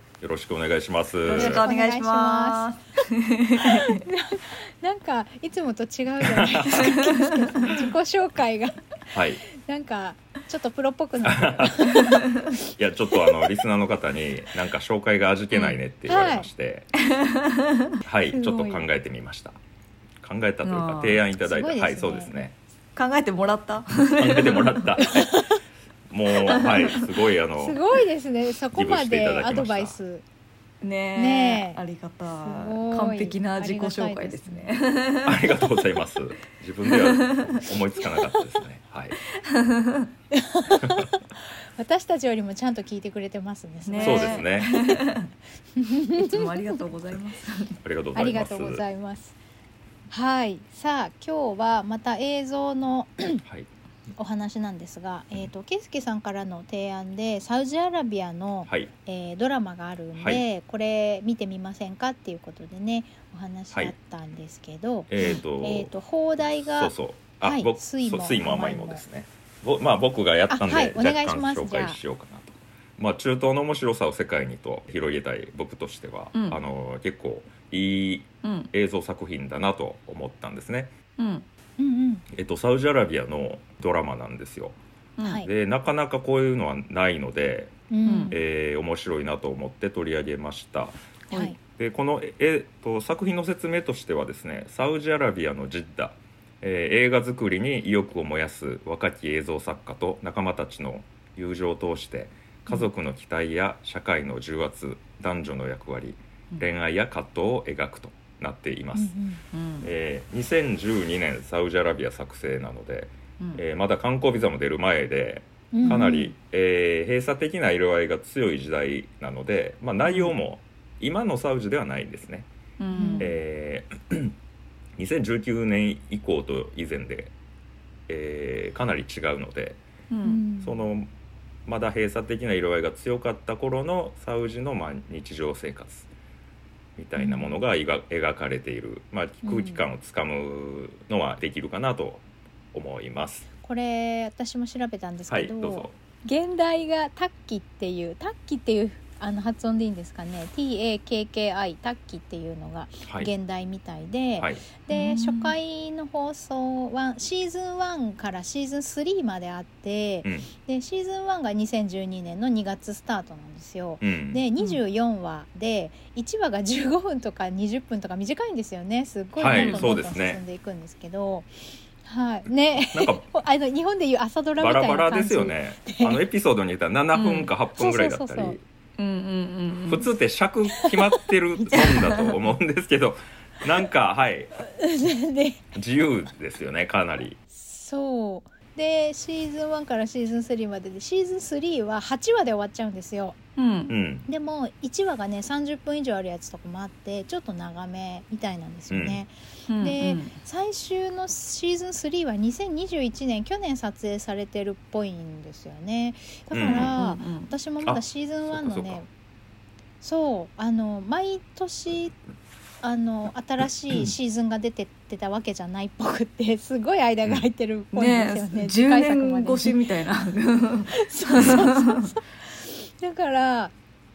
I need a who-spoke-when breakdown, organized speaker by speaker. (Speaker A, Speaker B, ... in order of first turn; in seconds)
Speaker A: 0.2-1.7, 6.3-6.9, 9.1-9.4, 11.2-12.0, 12.7-16.9, 18.0-19.6, 20.2-22.6, 24.2-25.4, 26.1-27.8, 28.7-30.0, 35.2-39.2, 40.8-41.1, 44.0-44.7, 47.8-48.8, 60.1-60.4, 65.1-65.9, 66.5-80.9, 82.3-84.8, 85.4-91.0, 91.8-109.2, 109.8-122.5, 123.2-124.3, 125.0-127.3, 128.1-129.8, 130.6-131.1, 131.7-136.1, 137.0-143.5, 145.3-145.9, 153.0-153.3, 154.4-154.7, 160.2-160.5, 164.0-164.4, 169.4-170.4, 172.9-173.2, 174.6-178.6, 179.9-184.5, 185.7-187.4, 193.9-194.3, 198.9-199.2, 206.5-206.9, 207.8-209.0
Speaker B: 1.2-4.0, 6.8-7.5, 15.5-15.8, 17.0-17.9, 20.6-21.2, 22.9-25.0, 30.8-35.5, 36.8-38.4, 39.4-40.1, 43.9-45.3, 46.2-47.8, 76.3-76.6, 78.4-78.7, 81.2-81.5, 85.2-85.4, 88.0-88.4, 109.5-109.9, 115.8-116.2, 120.0-120.3, 122.8-123.3, 130.1-130.4, 154.9-155.6, 169.5-170.0, 177.1-177.5, 179.0-180.1, 181.7-182.3, 193.6-193.9, 199.7-200.3, 206.7-207.5, 217.9-222.1
Speaker C: 1.3-2.7, 3.6-8.8, 9.4-12.2, 16.1-16.5, 18.3-18.9, 21.4-22.4, 25.1-25.5, 27.6-30.2, 31.1-31.8, 32.4-34.7, 40.3-45.0, 45.8-46.8, 48.1-49.4, 50.1-53.4, 54.1-69.0, 70.5-72.0, 81.8-82.2, 85.2-85.5, 87.9-88.4, 91.3-91.6, 108.9-109.4, 115.7-116.3, 122.9-123.3, 130.2-130.8, 137.2-137.6, 139.4-139.9, 143.6-176.2, 177.8-178.6, 181.6-181.9, 184.6-185.6, 187.5-193.4, 194.3-209.1, 210.0-212.2, 212.8-219.8, 220.9-223.7